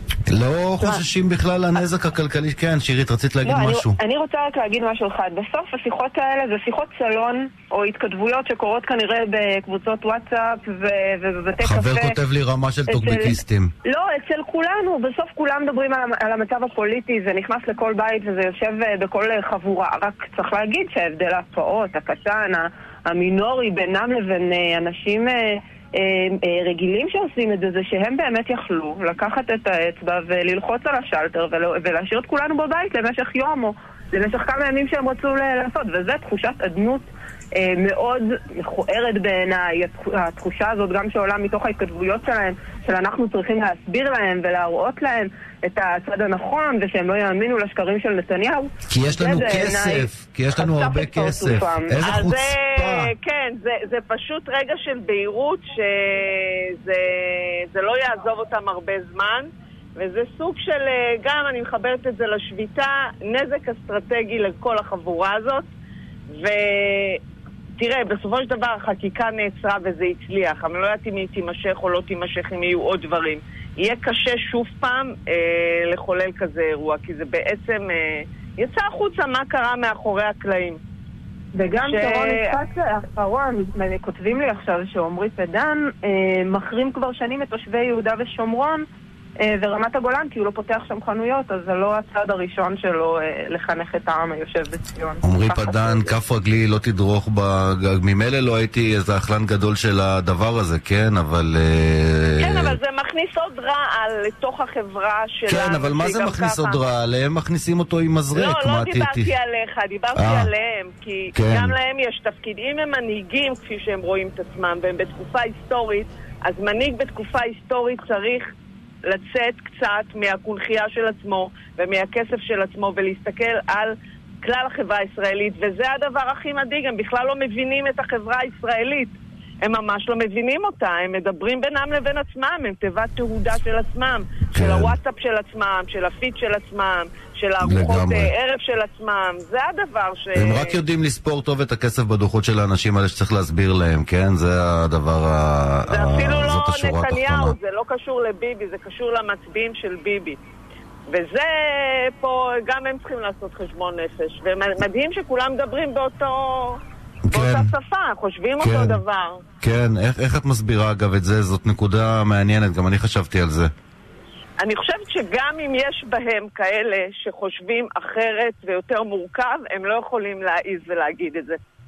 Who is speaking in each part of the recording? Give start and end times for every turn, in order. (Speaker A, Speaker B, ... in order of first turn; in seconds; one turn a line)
Speaker A: 0.3-4.0
Speaker B: 3.4-12.2
Speaker A: 11.6-13.7
Speaker B: 12.9-52.0
Speaker A: 48.9-53.1
Speaker C: 52.0-65.7
Speaker C: 66.3-67.2
Speaker C: 67.8-80.8
Speaker B: 81.5-88.8
Speaker C: 81.8-82.5
Speaker B: 89.4-96.1
Speaker A: 95.2-102.8
Speaker C: 102.4-106.8
Speaker A: 105.5-109.3
Speaker C: 108.3-118.5
Speaker A: 110.1-110.5
Speaker A: 111.3-111.8
Speaker C: 119.0-140.8
Speaker A: 134.5-135.0
Speaker A: 137.6-138.3
Speaker A: 140.3-147.6
Speaker C: 145.9-150.4
Speaker C: 151.1-159.4
Speaker A: 157.2-157.7
Speaker A: 158.6-159.0
Speaker A: 159.6-163.7
Speaker C: 164.6-171.6